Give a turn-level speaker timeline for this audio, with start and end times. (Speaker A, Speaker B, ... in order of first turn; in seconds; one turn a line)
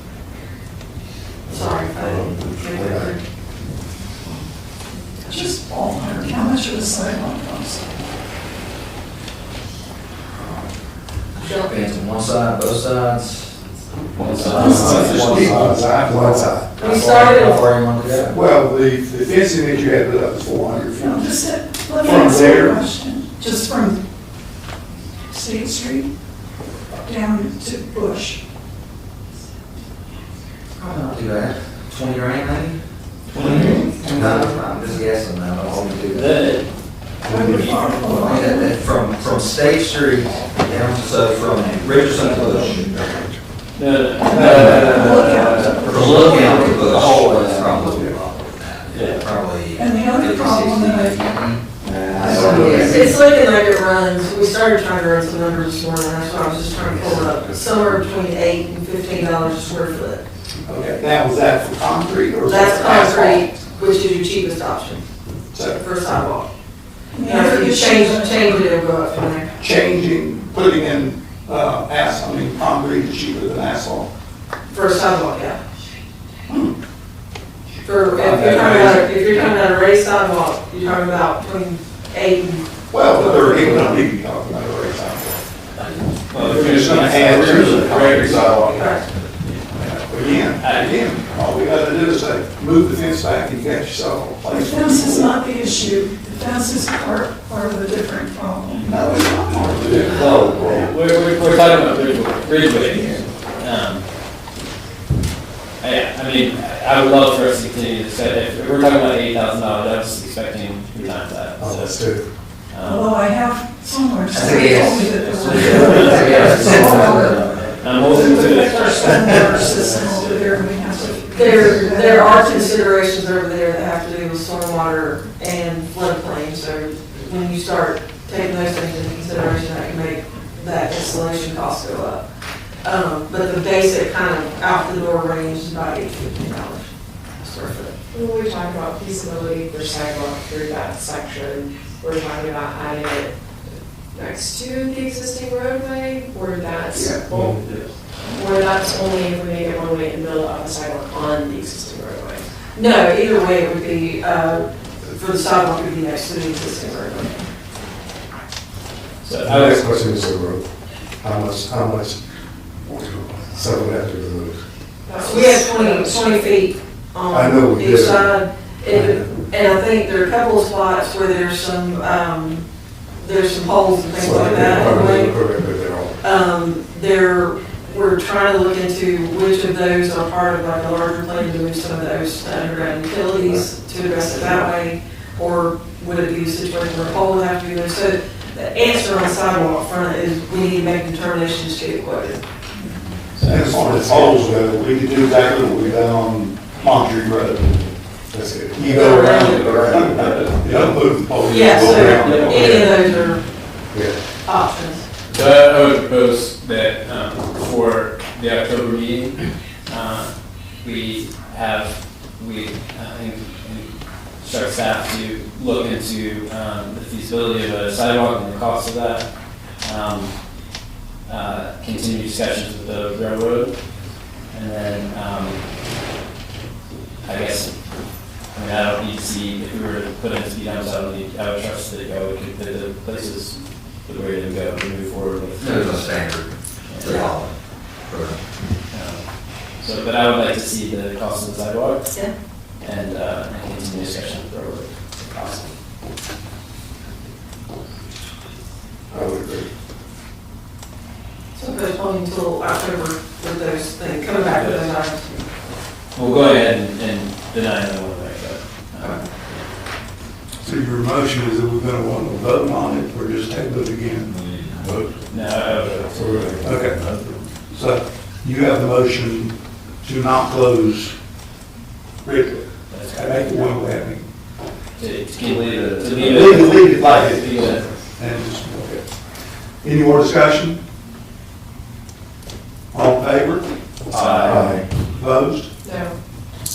Speaker A: 1.4-3.2
Speaker B: 1.5-3.1
Speaker A: 5.0-5.4
Speaker C: 5.2-7.9
Speaker A: 11.3-11.9
Speaker D: 11.4-13.5
Speaker E: 14.2-16.2
Speaker C: 14.4-15.3
Speaker B: 14.4-16.7
Speaker F: 14.7-16.6
Speaker D: 16.7-18.4
Speaker A: 16.8-17.7
Speaker F: 18.2-21.3
Speaker C: 20.9-24.0
Speaker F: 22.0-22.8
Speaker C: 25.3-26.1
Speaker C: 27.0-28.4
Speaker D: 30.8-32.8
Speaker E: 33.3-33.9
Speaker D: 33.3-36.4
Speaker B: 33.6-34.6
Speaker E: 36.1-36.7
Speaker C: 37.2-38.8
Speaker B: 37.3-37.7
Speaker F: 37.3-37.6
Speaker D: 38.2-42.9
Speaker C: 40.6-43.1
Speaker E: 42.2-42.7
Speaker E: 43.7-48.1
Speaker C: 44.2-47.0
Speaker F: 44.3-44.7
Speaker D: 44.5-45.0
Speaker D: 45.8-53.0
Speaker F: 47.9-48.1
Speaker E: 48.9-49.3
Speaker C: 49.7-51.4
Speaker F: 51.8-53.1
Speaker E: 52.2-52.6
Speaker C: 52.2-53.1
Speaker A: 52.6-60.2
Speaker F: 60.6-63.5
Speaker A: 62.5-65.0
Speaker F: 65.5-65.8
Speaker A: 65.6-66.5
Speaker C: 67.1-68.7
Speaker A: 67.2-69.5
Speaker F: 69.6-74.1
Speaker A: 74.7-75.6
Speaker F: 76.5-76.7
Speaker A: 77.8-84.0
Speaker E: 78.2-79.0
Speaker F: 78.3-78.9
Speaker F: 82.9-85.4
Speaker E: 85.8-89.6
Speaker F: 86.3-89.0
Speaker A: 88.8-89.1
Speaker F: 89.7-95.4
Speaker E: 90.6-91.1
Speaker C: 94.5-99.0
Speaker F: 98.8-100.9
Speaker E: 100.0-104.0
Speaker E: 105.8-113.2
Speaker B: 111.6-112.2
Speaker C: 112.8-122.8
Speaker D: 114.3-117.6
Speaker E: 114.7-121.7
Speaker A: 118.3-119.0
Speaker A: 121.3-132.2
Speaker A: 132.8-138.0
Speaker G: 138.1-147.7
Speaker B: 147.3-147.6
Speaker E: 147.5-147.9
Speaker G: 148.3-152.4
Speaker A: 152.7-157.4
Speaker E: 159.2-160.1
Speaker B: 159.4-160.7
Speaker B: 161.2-162.2
Speaker B: 162.8-164.6
Speaker G: 165.1-166.4
Speaker A: 165.2-172.6
Speaker B: 167.3-168.4
Speaker B: 168.9-169.2
Speaker A: 173.2-175.4
Speaker B: 174.1-176.2
Speaker A: 176.2-192.4
Speaker E: 193.3-194.3
Speaker F: 193.4-197.9
Speaker B: 198.3-198.9
Speaker F: 198.7-202.9
Speaker A: 198.8-200.0
Speaker E: 199.0-200.9
Speaker A: 201.4-203.4
Speaker E: 201.8-203.3
Speaker B: 203.9-204.2
Speaker A: 204.4-205.1
Speaker E: 205.3-220.3
Speaker E: 221.2-223.8
Speaker E: 224.5-225.6
Speaker E: 227.2-227.7
Speaker E: 228.5-236.3
Speaker D: 235.6-237.5
Speaker E: 236.8-237.3
Speaker A: 237.0-237.3
Speaker D: 238.0-238.4
Speaker E: 238.9-245.7
Speaker B: 249.1-249.7
Speaker A: 251.5-255.4
Speaker E: 254.5-254.9
Speaker E: 256.1-259.6
Speaker F: 260.6-264.4
Speaker B: 264.8-265.1
Speaker E: 265.3-267.3
Speaker B: 266.1-266.8
Speaker F: 266.6-267.1
Speaker F: 267.7-271.1
Speaker F: 272.2-274.3
Speaker E: 272.9-273.7
Speaker E: 275.0-278.1
Speaker F: 275.9-279.1
Speaker F: 279.8-280.8
Speaker F: 282.9-285.7
Speaker E: 284.1-284.9
Speaker B: 284.4-284.7
Speaker G: 285.8-286.2